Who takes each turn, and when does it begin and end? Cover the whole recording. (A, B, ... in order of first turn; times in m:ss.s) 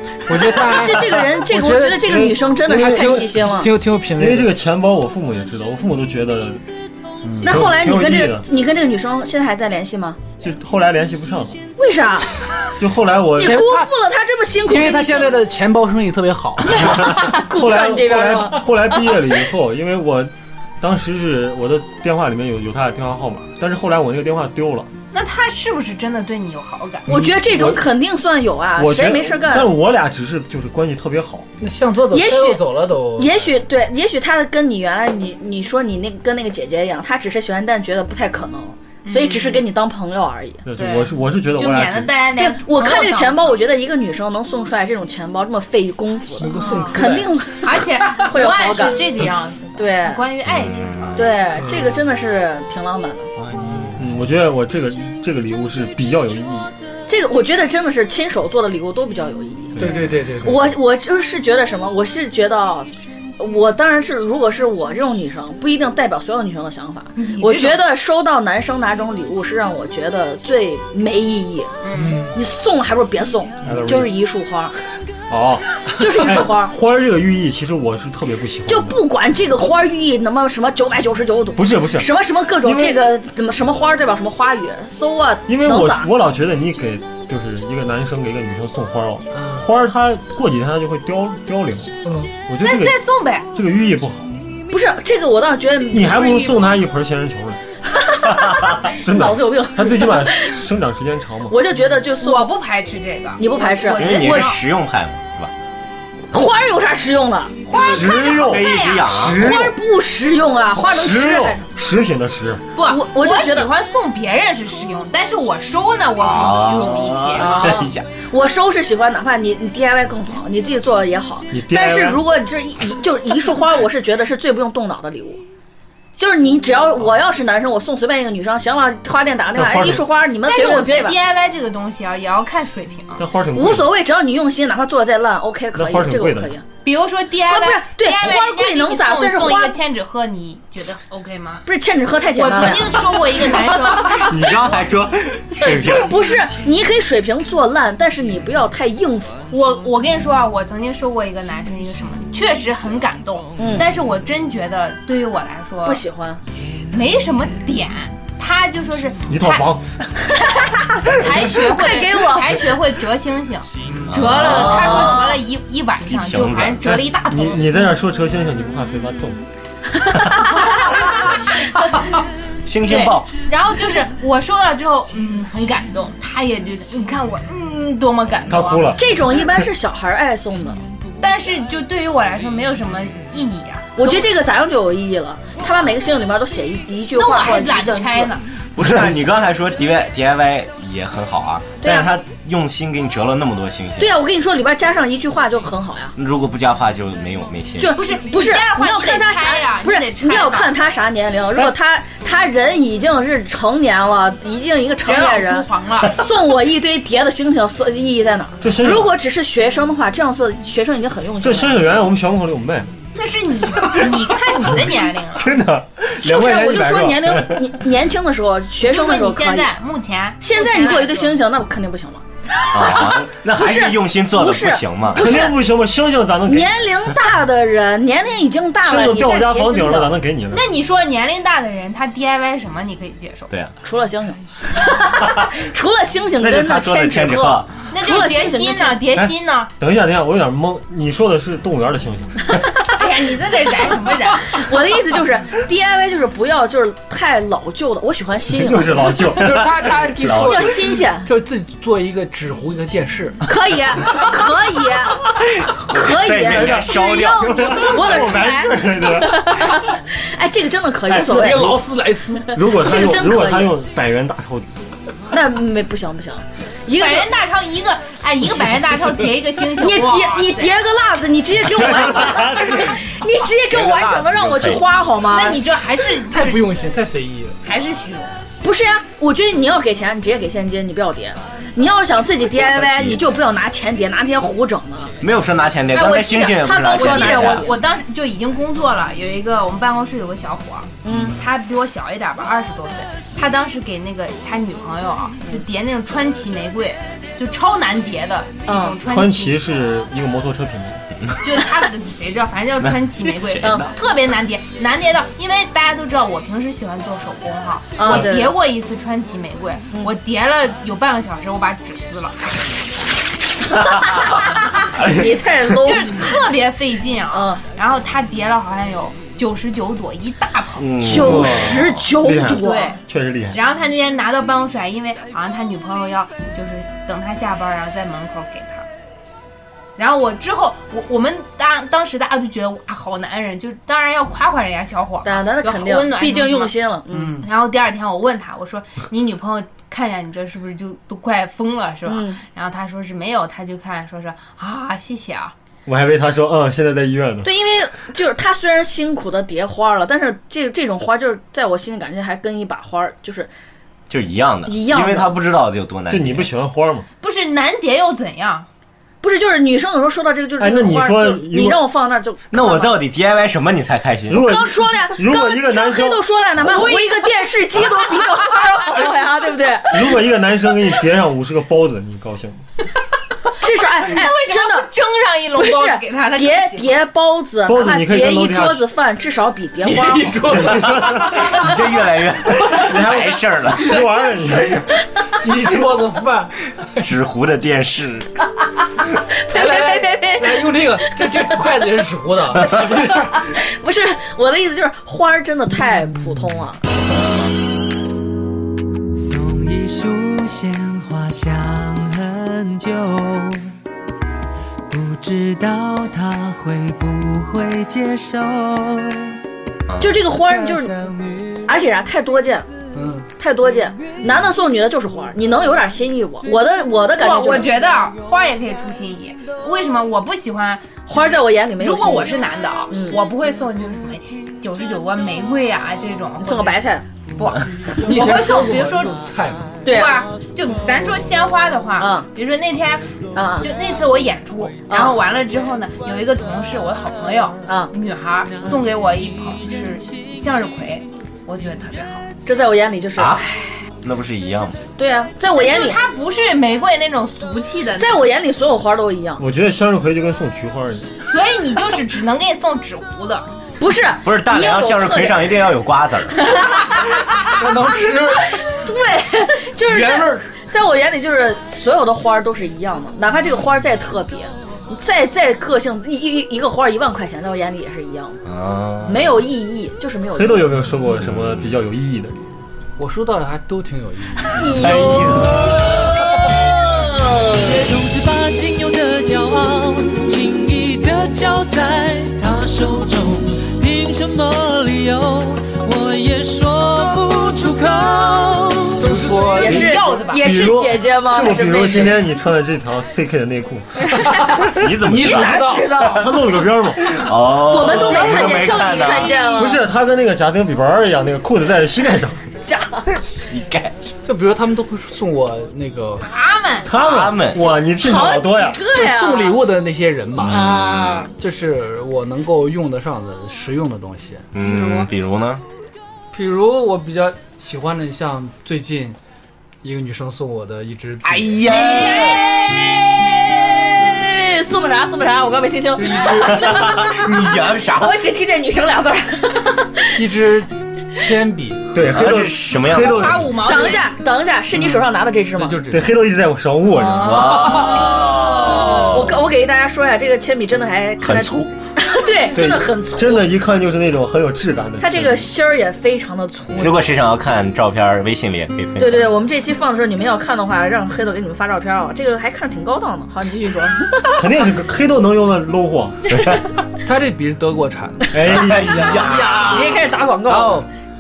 0:00.3-0:04.5 A
0:00.3-0:03.7 B
0:02.0-0:03.3 C
0:04.2-0:06.7 C
0:07.2-0:07.6 A
0:07.4-0:10.2 B
0:07.4-0:08.5 C
0:10.4-0:11.6 C
0:11.8-0:12.3 B
0:12.8-0:13.7 C
0:13.4-0:15.4 B
0:13.4-0:13.9 A
0:14.7-0:17.1 A
0:16.7-0:19.1 B
0:16.9-0:24.9 C
0:25.1-0:27.1 D
0:27.1-0:29.7 B
0:27.2-0:27.8 C
0:28.8-0:31.5 C
0:31.6-0:33.5 A
0:32.1-0:32.6 B
0:33.2-0:40.6 B
0:39.0-0:39.6 D
0:40.6-0:42.2 C
0:40.8-0:43.6 D
0:42.4-0:49.1 B
0:46.4-0:47.3 A
0:46.6-0:47.0 D
0:47.6-0:51.3 D
0:49.8-0:50.2 B
0:50.5-0:51.2 E
0:51.2-0:53.3 B
0:51.6-0:52.0 A
0:53.4-0:53.8 E
0:53.5-0:54.0 A
0:54.0-0:56.7 C
0:57.1-1:11.7 B
0:59.8-1:00.1 C
0:59.8-1:00.7 A
1:07.2-1:07.8 D
1:11.8-1:12.3 D
1:12.0-1:12.3 A
1:12.3-1:14.7 B
1:13.6-1:14.1 C
1:15.3-1:19.0 C
1:16.0-1:16.7 B
1:18.7-1:26.1 B
1:21.6-1:22.1 C
1:22.6-1:23.0 C
1:25.5-1:33.0 C
1:29.3-1:29.6 A
1:32.0-1:32.3 A
1:32.6-1:33.5 D
1:33.5-1:34.4 C
1:34.7-1:36.6 B
1:35.9-1:37.6 C
1:38.0-1:40.6 B
1:38.9-1:41.6 C
1:41.5-1:42.5 B
1:42.2-1:44.6 D
1:43.4-1:44.6 B
1:44.0-1:45.5 E
1:46.3-1:47.6 B
1:47.7-1:49.1 D
1:47.7-1:49.8 C
1:48.0-1:49.5 E
1:49.4-1:51.7 B
1:50.7-1:52.6 C
1:52.8-1:57.8 D
1:52.9-1:53.7 B
1:56.2-1:58.1 E
1:57.4-2:05.4 B
2:01.5-2:02.2 C
2:06.2-2:11.2 B
2:09.5-2:10.1 C
2:10.4-2:13.2 D
2:13.2-2:13.9 C
2:13.6-2:16.6 B
2:15.7-2:16.5 C
2:16.8-2:21.6 D
2:17.5-2:19.8 B
2:21.7-2:23.0 B
2:22.3-2:24.9 D
2:23.6-2:26.2 E
2:25.7-2:29.4 B
2:29.5-2:36.0 D
2:33.6-2:33.8 B
2:35.8-2:36.4 B
2:36.9-2:39.7 D
2:39.3-2:39.9 C
2:41.0-2:47.9 D
2:41.5-2:42.6 B
2:44.0-2:45.1 E
2:44.5-2:45.4 B
2:46.1-2:46.9 E
2:46.8-2:49.5 C
2:50.0-2:50.5 B
2:50.6-2:52.1 D
2:52.7-2:53.3 E
2:52.8-2:59.0 D
2:58.5-2:59.0 C
2:59.0-3:00.8 B
3:01.2-3:04.3 D
3:04.0-3:08.3 B
3:07.2-3:08.5 D
3:08.8-3:14.2 E
3:08.8-3:09.2 C
3:11.8-3:12.1 B
3:14.0-3:16.2 B
3:16.2-3:18.0 E
3:17.8-3:31.9 B
3:17.9-3:20.8 D
3:25.0-3:26.2 D
3:28.6-3:29.1 C
3:31.4-3:32.9 C
3:33.2-3:35.6 D
3:35.4-3:37.6 C
3:36.2-3:39.7 B
3:38.8-3:41.4 D
3:40.4-3:42.2 B
3:42.7-3:45.2 E
3:43.6-3:45.6 B
3:45.1-3:46.8 C
3:46.5-3:50.2 B
3:48.8-3:50.7 C
3:50.5-3:53.5 D
3:53.8-3:59.0 B
3:56.4-3:57.7 E
3:57.9-3:59.7 D
3:59.2-4:02.7 C
4:03.0-4:04.6 D
4:04.5-4:08.9 B
4:08.5-4:09.7 C
4:09.4-4:13.4 A
4:09.6-4:10.8 E
4:10.3-4:11.3 B
4:13.5-4:15.2 B
4:15.6-4:18.0 E
4:15.8-4:21.8 B
4:16.4-4:19.7 C
4:21.1-4:21.8 C
4:21.1-4:22.5 A
4:22.5-4:24.8 C
4:22.6-4:23.8 B
4:25.3-4:27.3 B
4:27.0-4:30.7 D
4:29.8-4:35.6 B
4:32.0-4:32.8 E
4:33.7-4:34.8 E
4:35.3-4:36.6 D
4:36.3-4:37.6 A
4:37.6-4:38.4 D
4:38.6-4:45.1 B
4:42.8-4:43.2 E
4:45.2-4:47.7 E
4:45.9-4:59.6 D
4:46.6-4:47.7 B
4:51.0-4:51.4 B
4:58.7-4:59.0 B
4:59.0-5:01.1 C
5:01.4-5:12.5 D
5:03.4-5:03.9 E
5:03.6-5:03.9 B
5:08.0-5:08.6 B
5:14.2-5:14.7 D
5:14.9-5:16.3 B
5:15.7-5:20.9 D
5:17.3-5:17.6 B
5:20.8-5:21.9 E
5:21.0-5:23.0 B
5:21.0-5:23.6 C
5:22.5-5:23.0 D
5:23.5-5:28.9 D
5:30.0-5:36.8 D
5:35.2-5:37.4 B
5:37.1-5:37.5 A
5:37.4-5:45.5 D
5:42.1-5:42.4 B
5:45.9-5:47.5 C
5:47.4-5:53.5 B
5:54.1-5:56.5 E
5:54.7-5:55.4 B
5:56.1-5:57.1 C
5:57.2-5:58.7 D
5:59.2-6:03.0 B
6:00.6-6:01.8 C
6:02.5-6:04.4 E
6:04.3-6:06.2 C
6:04.3-6:10.2 B
6:06.6-6:07.4 D
6:09.9-6:12.6 C
6:13.6-6:14.9 B
6:14.0-6:16.9 D
6:15.6-6:20.3 B
6:17.7-6:18.9 C
6:19.8-6:21.7 A
6:20.5-6:21.4 C
6:21.1-6:24.0 E
6:22.6-6:24.9 C
6:25.3-6:27.1 A
6:27.0-6:28.3 E
6:29.4-6:31.5 B
6:29.5-6:33.5 A
6:33.3-6:36.8 B
6:39.2-6:43.7 F
6:44.9-6:49.4 F
6:50.0-6:51.1 B
6:51.6-6:52.7 B
6:52.9-6:53.3 A
6:53.4-6:57.7 B
6:57.1-7:06.8 D
7:01.1-7:02.4 B
7:02.9-7:03.2 B
7:06.4-7:07.0 B
7:07.4-7:09.2 D
7:08.0-7:09.8 A
7:09.8-7:10.2 B
7:09.8-7:22.3 D
7:12.0-7:12.3 B
7:13.3-7:13.7 B
7:14.9-7:15.2 B
7:17.7-7:17.9 B
7:22.5-7:23.7 B
7:23.2-7:23.4 E
7:24.0-7:24.8 E
7:25.0-7:26.0 B
7:25.5-7:28.2 D
7:28.0-7:29.4 B
7:29.4-7:31.2 C
7:31.3-7:33.5 D
7:33.8-7:35.5 B
7:34.2-7:36.7 E
7:36.4-7:37.0 B
7:37.4-7:38.6 A
7:38.3-7:48.4 B
7:39.8-7:40.5 A
7:48.4-7:49.4 E
7:49.0-7:50.7 B
7:50.4-7:52.4 C
7:51.3-7:51.7 E
7:53.0-7:55.3 A
7:54.5-7:57.7 B
7:54.7-7:55.8 E
7:57.6-8:09.2 F
8:09.0-8:10.0 A
8:09.4-8:10.5 D
8:09.6-8:12.2 B
8:10.4-8:14.4 C
8:14.3-8:16.0 A
8:14.7-8:16.1 E
8:15.1-8:16.3 B
8:16.2-8:17.2 C
8:17.0-8:19.5 E
8:17.6-8:19.8 B
8:19.6-8:22.4 C
8:22.6-8:23.1 B
8:23.4-8:24.0 E
8:24.2-8:26.3 A
8:26.2-8:27.2 D
8:26.9-8:27.7 E
8:26.9-8:28.8 C
8:28.0-8:29.6 B
8:28.9-8:30.7 A
8:30.4-8:31.3 E
8:30.5-8:31.3 B
8:31.3-8:34.5 A
8:34.5-8:35.6 E
8:34.6-8:35.1 D
8:36.3-8:39.2 A
8:39.8-8:41.8 A
8:41.2-8:42.4 E
8:41.7-8:50.2 B
8:45.9-8:47.0 A
8:46.5-8:48.1 E
8:50.2-8:51.9 A
8:51.9-8:53.5 C
8:52.1-8:53.6 E
8:52.8-8:54.2 D
8:53.6-8:55.8 B
8:54.7-8:56.1 A
8:55.9-8:57.6 C
8:56.9-9:03.5 B
8:57.2-8:59.4 E
9:01.2-9:01.7 E
9:02.5-9:05.5 C
9:05.0-9:07.2 B
9:06.8-9:09.3 E
9:09.0-9:14.6 B
9:14.4-9:16.3 C
9:16.4-9:16.6 E
9:17.0-9:18.6 A
9:18.3-9:20.0 E
9:18.4-9:19.0 C
9:19.1-9:20.8 B
9:19.1-9:20.0 D
9:20.5-9:20.9 A